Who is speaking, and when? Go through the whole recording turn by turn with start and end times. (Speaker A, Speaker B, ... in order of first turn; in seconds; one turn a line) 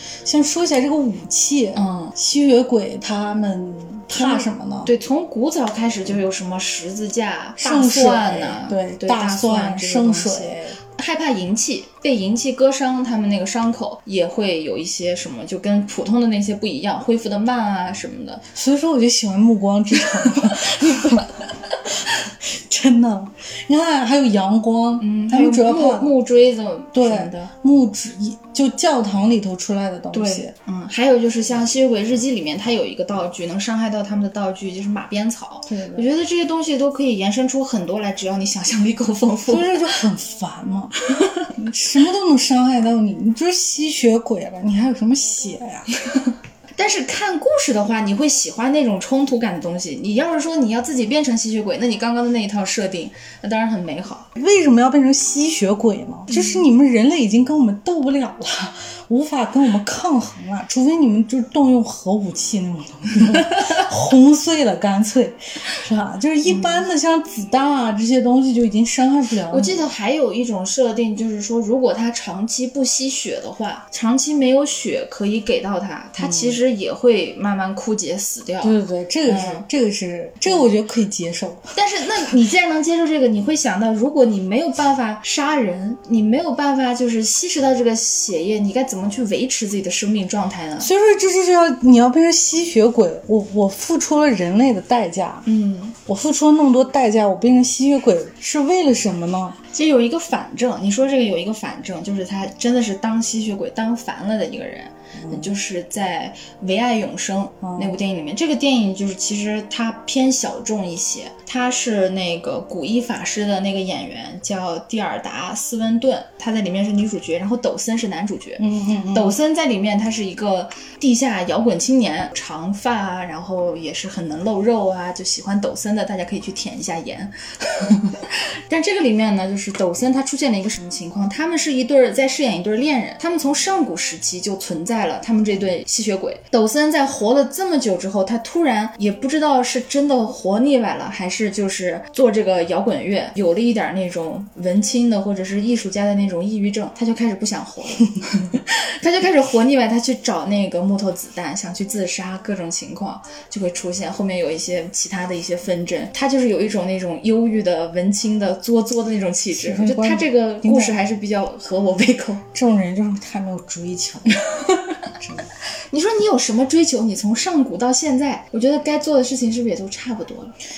Speaker A: 0.2-4.9
Speaker B: 1.7-2.1
Speaker B: 4.1-18.4
Speaker A: 7.6-10.8
Speaker A: 18.5-21.3
Speaker B: 20.2-21.3
Speaker A: 21.8-26.1
Speaker B: 25.0-27.5
Speaker A: 26.9-30.5
Speaker B: 30.1-40.0
Speaker A: 35.7-36.1
Speaker A: 39.5-41.0
Speaker B: 41.1-41.4
Speaker A: 41.5-45.9
Speaker B: 46.8-54.3
Speaker A: 54.3-69.9
Speaker B: 56.3-56.6
Speaker B: 66.5-66.8
Speaker B: 69.5-78.7
Speaker A: 76.2-76.6
Speaker A: 78.6-81.7
Speaker B: 79.3-79.6
Speaker B: 81.7-90.9
Speaker A: 90.8-95.5
Speaker B: 95.5-96.0
Speaker A: 96.0-99.6
Speaker B: 99.7-162.4
Speaker A: 105.2-105.5
Speaker A: 107.6-108.0
Speaker A: 118.6-119.4
Speaker A: 159.5-161.0
Speaker A: 162.5-164.4
Speaker B: 164.5-165.0
Speaker A: 165.2-165.5
Speaker B: 165.9-170.6